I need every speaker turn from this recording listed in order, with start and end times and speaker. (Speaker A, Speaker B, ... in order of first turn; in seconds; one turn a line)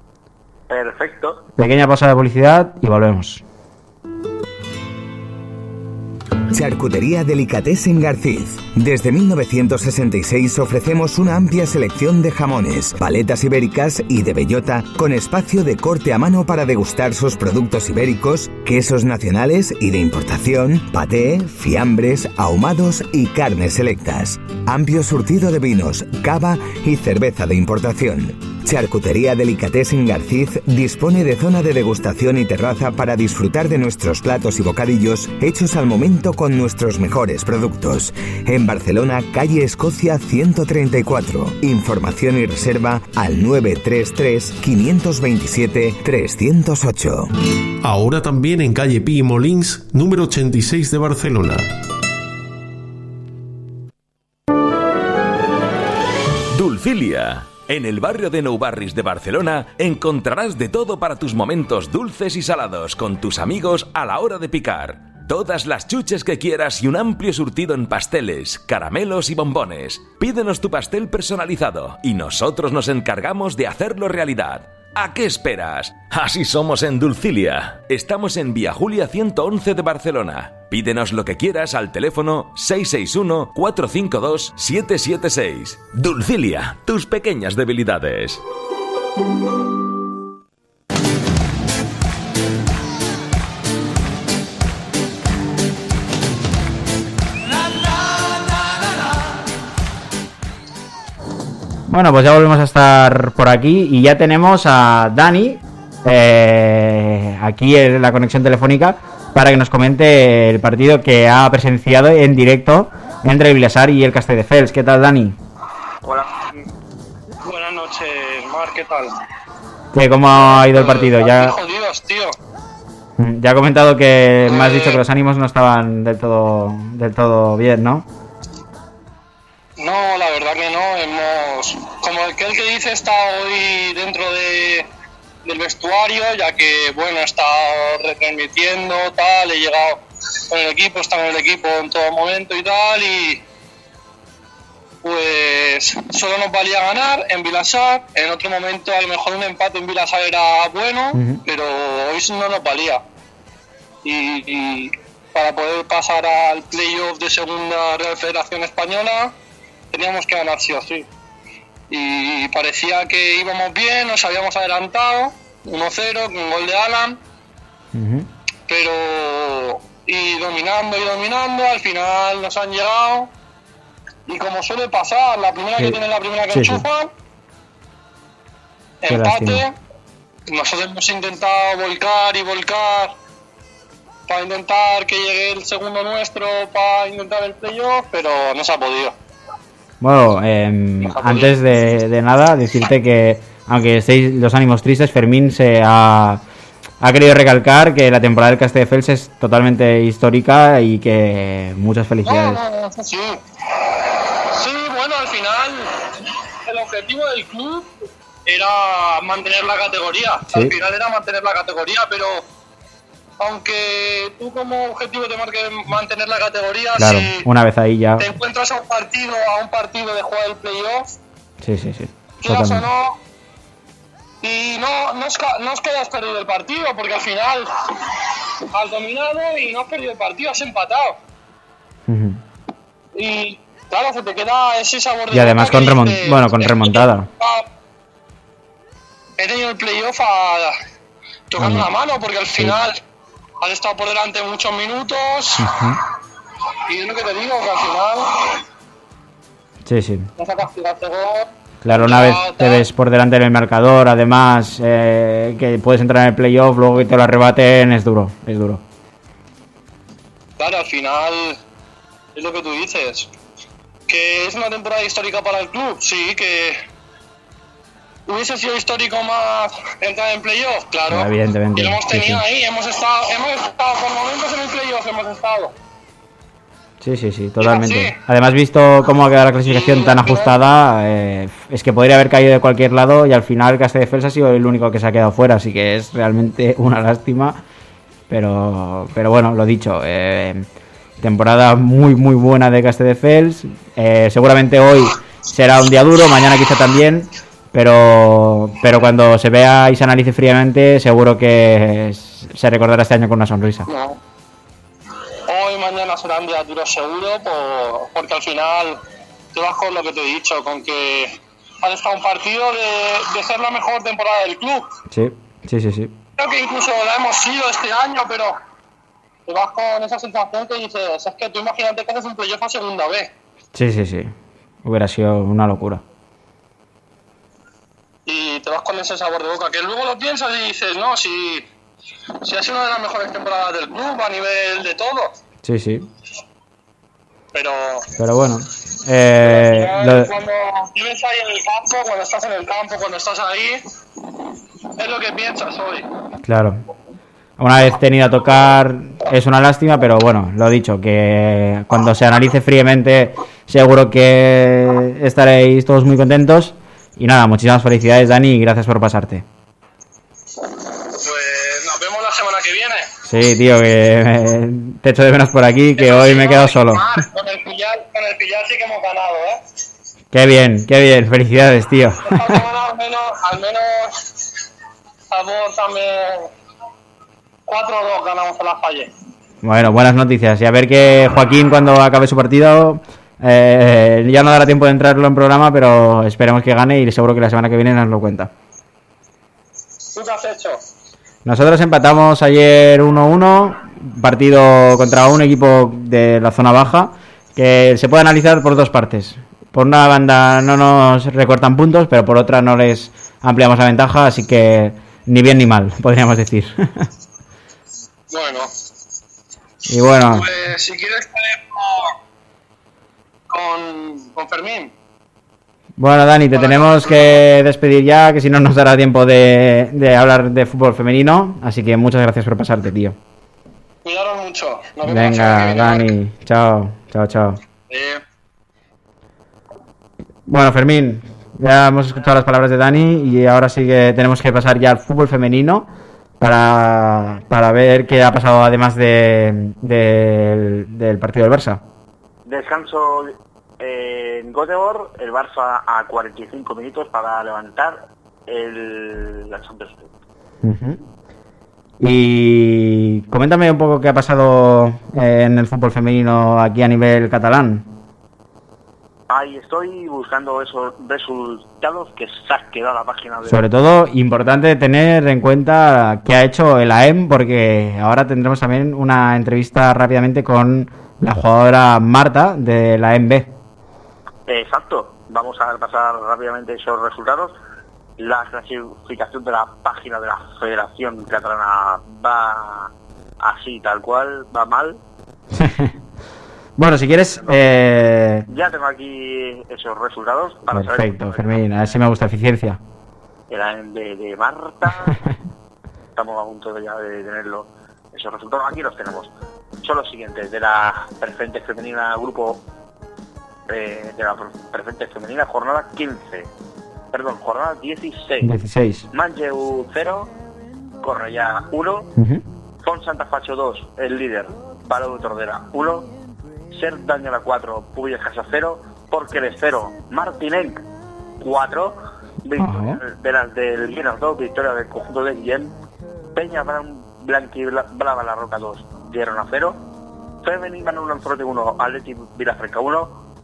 Speaker A: 0.7-1.4
Speaker B: 1.6-3.4
Speaker C: 6.5-47.3
Speaker D: 47.9-51.6
Speaker E: 56.5-88.4
Speaker B: 101.9-115.4
Speaker A: 116.0-116.7
Speaker F: 117.4-119.1
Speaker B: 119.9-121.5
Speaker F: 120.3-122.4
Speaker B: 123.2-128.1
Speaker F: 124.5-125.0
Speaker F: 129.8-134.9
Speaker F: 135.4-143.4
Speaker F: 145.0-153.0
Speaker B: 151.1-151.4
Speaker F: 154.0-159.3
Speaker F: 159.9-161.1
Speaker F: 161.9-167.2
Speaker B: 167.9-168.3
Speaker F: 168.7-173.3
Speaker F: 174.3-177.1
Speaker B: 176.5-176.8
Speaker F: 179.0-179.8
Speaker B: 179.1-179.7
Speaker F: 180.5-183.2
Speaker F: 184.3-189.2
Speaker B: 190.0-196.4
Speaker F: 191.0-191.5
Speaker B: 197.0-202.6
Speaker F: 202.2-203.4
Speaker F: 204.4-212.4
Speaker B: 210.5-210.7
Speaker F: 213.4-217.5
Speaker B: 217.0-218.3
Speaker F: 218.2-221.1
Speaker B: 221.6-222.9
Speaker F: 222.4-223.2
Speaker F: 224.4-228.1
Speaker F: 228.7-231.2
Speaker B: 232.1-232.4
Speaker F: 233.2-237.7
Speaker B: 235.3-237.3
Speaker F: 239.4-240.8
Speaker F: 241.5-243.0
Speaker B: 241.6-241.9
Speaker F: 243.6-245.9
Speaker B: 245.6-246.0
Speaker F: 246.9-248.6
Speaker B: 249.8-250.3
Speaker F: 250.4-252.8
Speaker B: 251.8-258.8
Speaker F: 260.6-261.6
Speaker F: 262.4-263.3
Speaker F: 264.1-266.8
Speaker F: 268.3-275.7
Speaker B: 271.1-272.4
Speaker B: 277.0-287.6
Speaker F: 277.6-278.2
Speaker F: 279.6-280.5
Speaker B: 288.3-290.7
Speaker B: 291.2-303.9
Speaker F: 303.9-304.2
Speaker F: 305.5-309.0
Speaker F: 309.5-314.9
Speaker B: 315.1-316.1
Speaker F: 316.4-318.6
Speaker F: 319.5-323.3
Speaker B: 323.7-326.0
Speaker F: 328.3-331.7
Speaker F: 332.4-335.3
Speaker B: 335.6-336.1
Speaker F: 337.5-338.1
Speaker B: 338.2-340.3
Speaker F: 339.4-343.9
Speaker F: 345.0-346.1
Speaker B: 346.4-346.8
Speaker B: 347.6-359.4
Speaker F: 361.1-363.1
Speaker B: 363.3-367.1
Speaker F: 366.0-369.6
Speaker B: 370.3-372.6
Speaker F: 372.2-374.3
Speaker F: 375.3-376.5
Speaker F: 377.7-379.1
Speaker B: 379.6-388.5
Speaker F: 390.1-390.8
Speaker B: 391.4-407.1
Speaker F: 408.3-408.7
Speaker B: 409.9-410.5
Speaker F: 410.3-412.2
Speaker F: 413.5-414.9
Speaker B: 416.0-423.2
Speaker F: 416.5-417.4
Speaker F: 424.1-426.1
Speaker B: 425.1-427.6
Speaker F: 427.9-428.2
Speaker B: 430.5-435.9
Speaker B: 436.4-441.8
Speaker A: 442.5-450.1
Speaker B: 450.6-451.0
Speaker B: 452.0-457.9
Speaker A: 459.3-463.6
Speaker B: 463.5-473.5
Speaker A: 474.5-477.6
Speaker A: 478.2-485.0
Speaker B: 485.5-485.9
Speaker B: 486.8-488.5
Speaker A: 488.5-491.8
Speaker B: 490.7-492.8
Speaker A: 493.5-495.2
Speaker A: 496.1-499.3
Speaker A: 499.8-502.6
Speaker A: 503.7-506.5
Speaker A: 507.1-508.5
Speaker B: 508.4-509.1
Speaker A: 509.1-510.3
Speaker A: 511.0-512.1
Speaker B: 512.2-512.4
Speaker A: 512.8-516.1
Speaker A: 516.7-520.8
Speaker A: 521.4-525.7
Speaker B: 522.6-523.0
Speaker A: 526.4-529.8
Speaker A: 530.4-533.2